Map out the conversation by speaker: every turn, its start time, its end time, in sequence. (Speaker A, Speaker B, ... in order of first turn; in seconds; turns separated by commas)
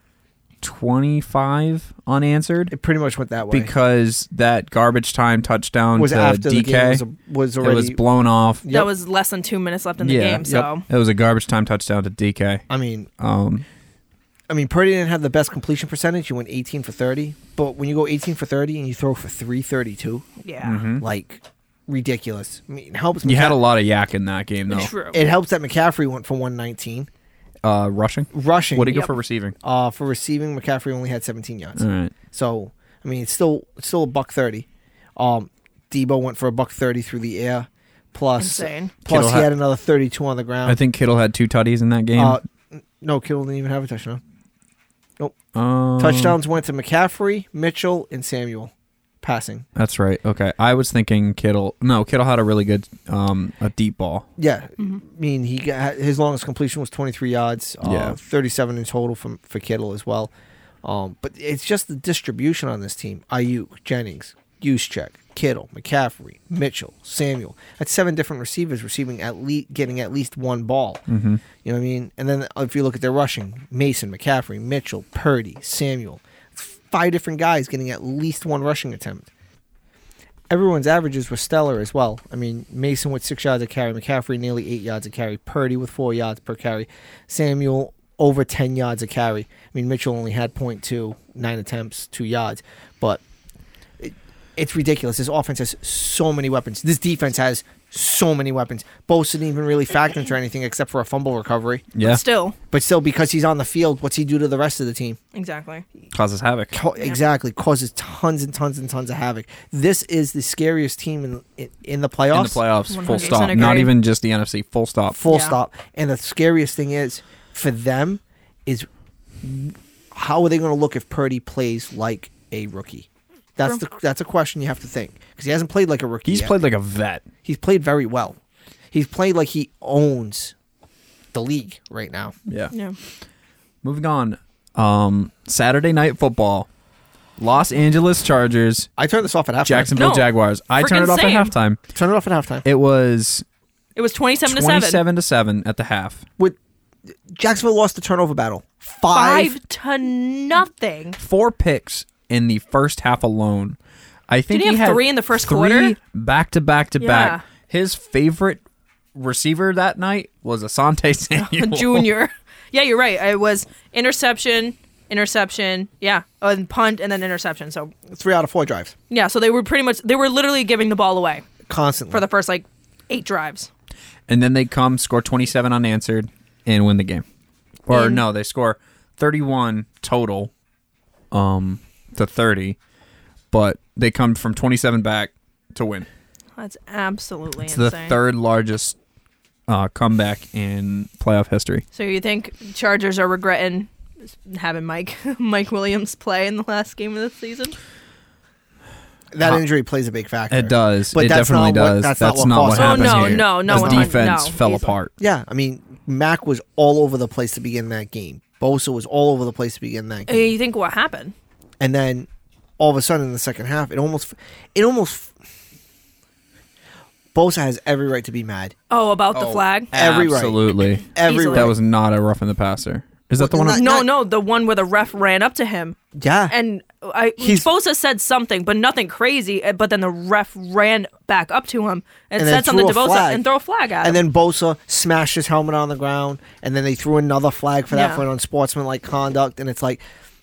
Speaker A: 0.6-2.7, Speaker B: 2.7-3.7, Speaker A: 3.5-7.0, Speaker B: 6.0-8.0, Speaker A: 7.6-8.6, Speaker C: 8.7-10.8, Speaker A: 10.0-12.6, Speaker B: 12.7-13.1, Speaker A: 13.2-13.6, Speaker B: 14.5-20.2, Speaker C: 20.4-20.8, Speaker A: 20.6-21.0, Speaker B: 21.0-23.6, Speaker A: 23.2-24.9, Speaker C: 24.7-25.2, Speaker B: 25.1-27.1, Speaker A: 27.6-29.5, Speaker B: 28.3-29.0, Speaker B: 29.6-34.6, Speaker A: 31.8-32.1, Speaker B: 35.2-40.8, Speaker C: 38.4-38.9, Speaker A: 39.0-39.5, Speaker A: 40.6-42.4, Speaker B: 42.1-44.2, Speaker A: 45.5-46.4, Speaker B: 46.0-49.6, Speaker A: 49.8-54.3, Speaker B: 54.4-60.3, Speaker A: 57.8-58.2, Speaker B: 60.8-71.0, Speaker A: 71.1-71.4, Speaker B: 71.6-79.3, Speaker B: 80.5-93.2, Speaker B: 94.0-101.9, Speaker A: 101.9-102.2, Speaker C: 102.0-102.5, Speaker B: 102.7-105.2, Speaker C: 105.3-105.8, Speaker A: 106.1-106.7, Speaker B: 106.7-112.6, Speaker A: 112.3-115.2, Speaker C: 112.9-113.9, Speaker B: 115.1-118.9, Speaker C: 115.3-115.5, Speaker B: 119.4-126.5, Speaker A: 126.2-127.2, Speaker B: 127.4-128.4, Speaker B: 128.9-130.5, Speaker B: 131.3-132.3, Speaker A: 132.5-132.7, Speaker C: 132.7-133.0, Speaker A: 133.8-136.7, Speaker A: 137.4-138.9, Speaker B: 139.0-140.0, Speaker A: 139.6-141.8, Speaker C: 139.9-141.5, Speaker B: 141.9-142.6, Speaker A: 142.6-143.4, Speaker C: 143.9-145.0, Speaker A: 144.4-146.2, Speaker B: 147.3-149.6, Speaker C: 149.1-151.2, Speaker A: 151.2-153.8, Speaker A: 154.3-158.6, Speaker C: 154.5-155.9, Speaker C: 157.0-157.4, Speaker A: 159.1-162.1, Speaker C: 161.4-167.9, Speaker B: 168.1-168.9, Speaker C: 169.1-171.4, Speaker B: 171.7-172.2, Speaker C: 172.1-173.7, Speaker A: 174.3-177.2, Speaker A: 177.9-180.5, Speaker C: 177.9-178.2, Speaker A: 181.3-182.8, Speaker A: 183.5-186.1, Speaker C: 186.6-188.2, Speaker A: 187.6-189.0, Speaker A: 189.7-191.8, Speaker C: 191.9-197.8, Speaker B: 199.3-204.2, Speaker A: 200.5-205.1, Speaker C: 202.7-204.9, Speaker B: 205.2-210.5, Speaker C: 210.3-211.3, Speaker B: 211.8-212.3, Speaker B: 212.8-215.3, Speaker B: 217.3-218.7, Speaker C: 218.9-219.9, Speaker A: 219.3-223.8, Speaker B: 219.9-221.7, Speaker C: 221.2-221.7, Speaker B: 223.4-224.1, Speaker C: 223.7-226.0, Speaker B: 226.2-226.5, Speaker C: 226.5-234.2, Speaker B: 227.4-227.7, Speaker B: 232.4-233.4, Speaker B: 234.0-240.0, Speaker C: 237.9-238.2